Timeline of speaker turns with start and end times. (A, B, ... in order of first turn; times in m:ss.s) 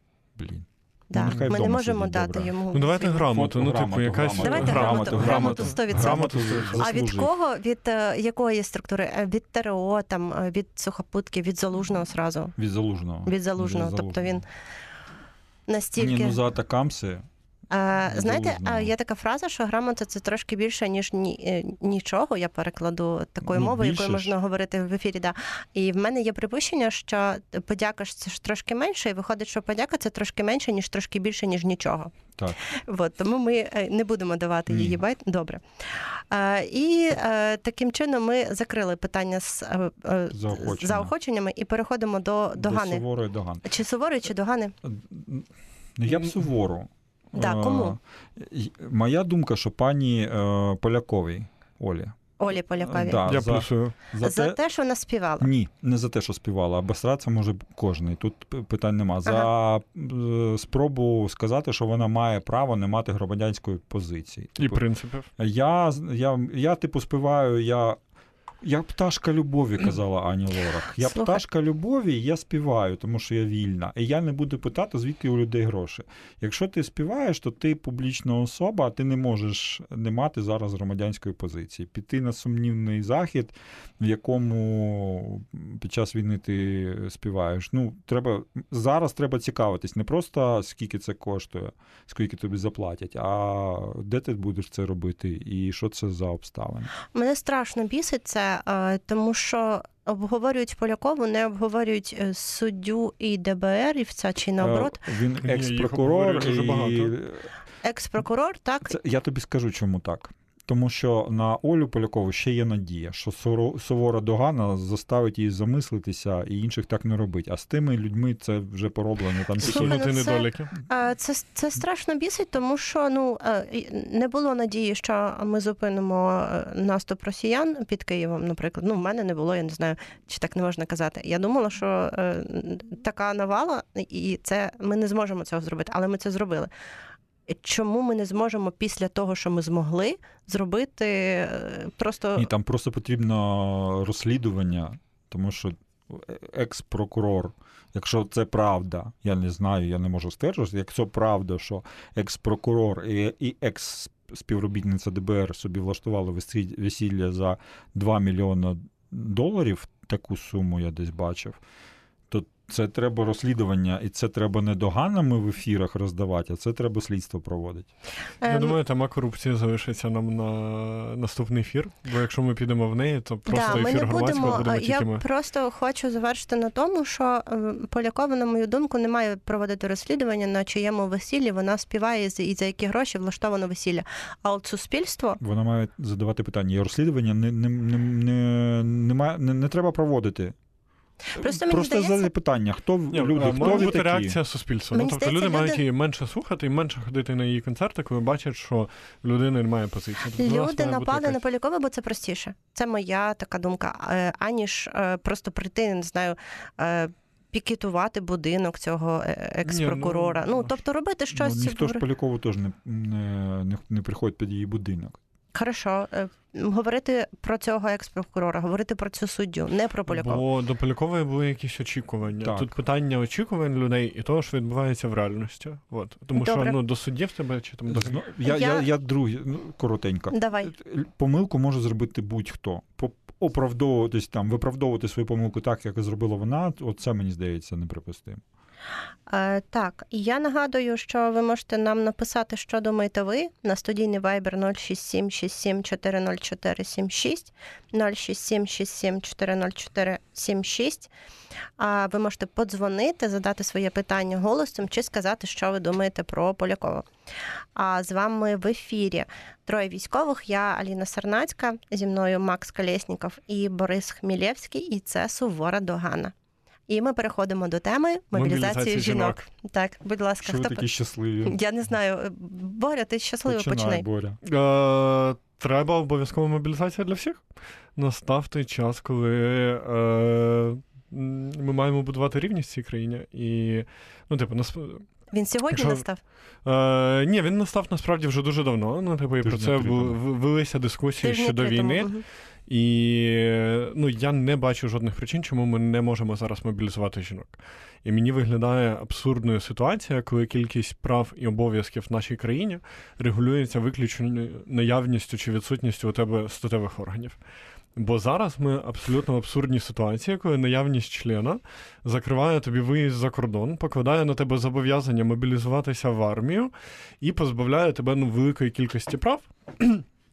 0:00.4-0:02.6 A
0:01.1-0:03.2 B
0:02.7-0:06.9 C
0:03.1-0:07.3 A
0:04.4-0:12.6 B
0:12.6-0:14.4 A
0:13.3-0:14.5 B
0:15.7-0:16.4 B
0:16.0-0:17.2 A
0:17.7-0:43.0 B
0:18.1-0:18.9 A
0:23.4-0:24.3 A
0:34.7-0:35.0 A
0:40.3-0:41.1 A
0:42.6-0:43.6 A
0:43.6-0:44.7 B
0:44.8-0:52.2 A
0:47.4-0:48.0 B
0:52.4-0:53.2 B
0:52.8-0:54.6 A
0:53.2-0:53.9 C
0:54.2-0:55.5 B
0:55.4-1:04.8 A
1:04.6-1:05.3 C
1:05.4-1:08.0 A
1:08.6-1:36.9 A
1:11.0-1:11.4 B
1:37.1-1:45.0 B
1:44.6-1:47.5 A
1:45.4-1:47.2 C
1:47.8-1:49.0 B
1:48.9-2:00.0 A
1:59.6-2:00.7 C
1:59.6-2:16.7 B
2:17.5-2:22.5 B
2:22.4-2:41.6 A
2:42.3-2:47.9 A
2:48.4-2:48.8 B
2:48.5-2:55.2 C
2:53.5-3:05.4 B
3:05.4-3:10.6 A
3:11.3-3:12.3 B
3:11.4-3:14.4 A
3:13.1-3:21.4 C
3:13.4-3:13.9 B
3:14.9-3:15.8 B
3:20.4-3:32.0 B
3:29.7-3:30.8 C
3:31.3-3:35.2 A
3:35.5-3:40.4 B
3:40.1-3:48.2 C
3:42.4-3:42.7 A
3:46.4-3:46.8 B
3:47.9-3:58.4 A
3:48.4-3:48.9 B
3:50.3-3:50.7 B
3:59.3-4:11.1 B
4:11.8-4:17.1 B
4:17.8-4:26.3 B
4:26.9-4:30.8 B
4:28.3-4:29.4 C
4:30.4-4:31.6 A
4:31.4-4:34.0 B
4:33.5-4:34.4 A
4:34.4-4:37.4 C
4:38.0-4:45.1 C
4:45.3-4:46.2 B
4:45.7-4:46.0 C
4:46.6-4:52.1 C
4:49.4-4:50.2 A
4:51.2-4:52.2 B
4:52.7-5:07.4 C
5:08.0-5:20.0 C